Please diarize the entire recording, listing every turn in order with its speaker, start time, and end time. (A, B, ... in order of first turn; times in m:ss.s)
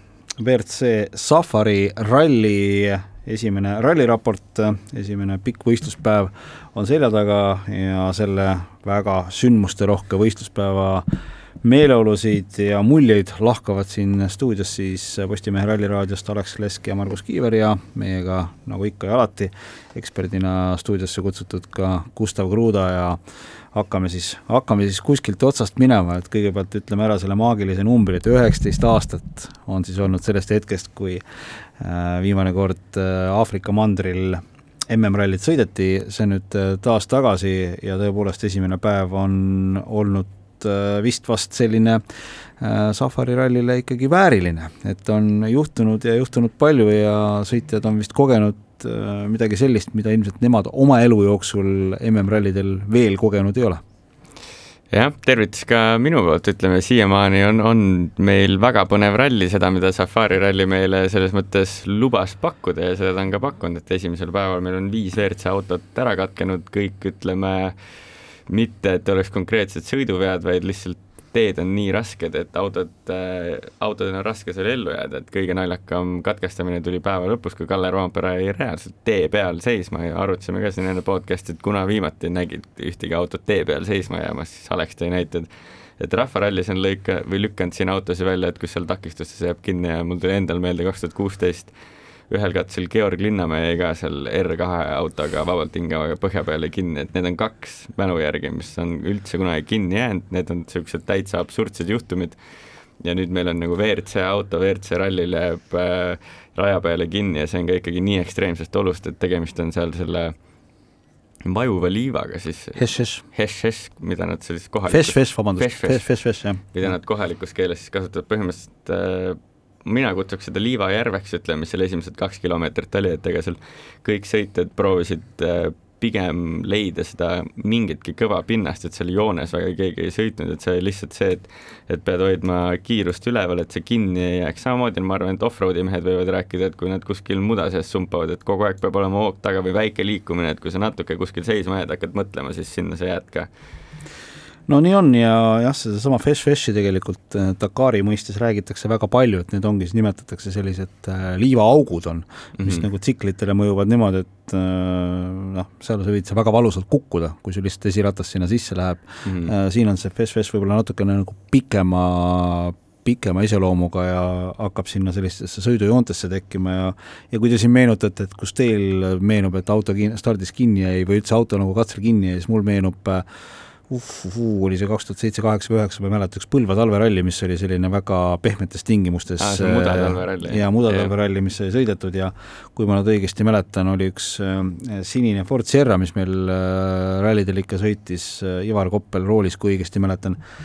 0:00.4-0:23.2 A
0:23.7-0:31.2 A
0:31.8-0:42.0 A
0:42.6-0:53.8 A
0:54.9-1:07.8 B
1:08.5-1:31.7 B
1:32.3-1:42.4 B
1:43.0-1:50.3 B
1:51.4-1:56.1 B
1:52.8-1:53.2 A
1:54.9-1:56.6 A
1:56.7-2:23.5 B
2:24.7-2:53.2 A
2:32.6-2:32.8 B
2:39.2-2:39.5 B
2:53.9-3:10.4 A
2:59.4-3:01.1 B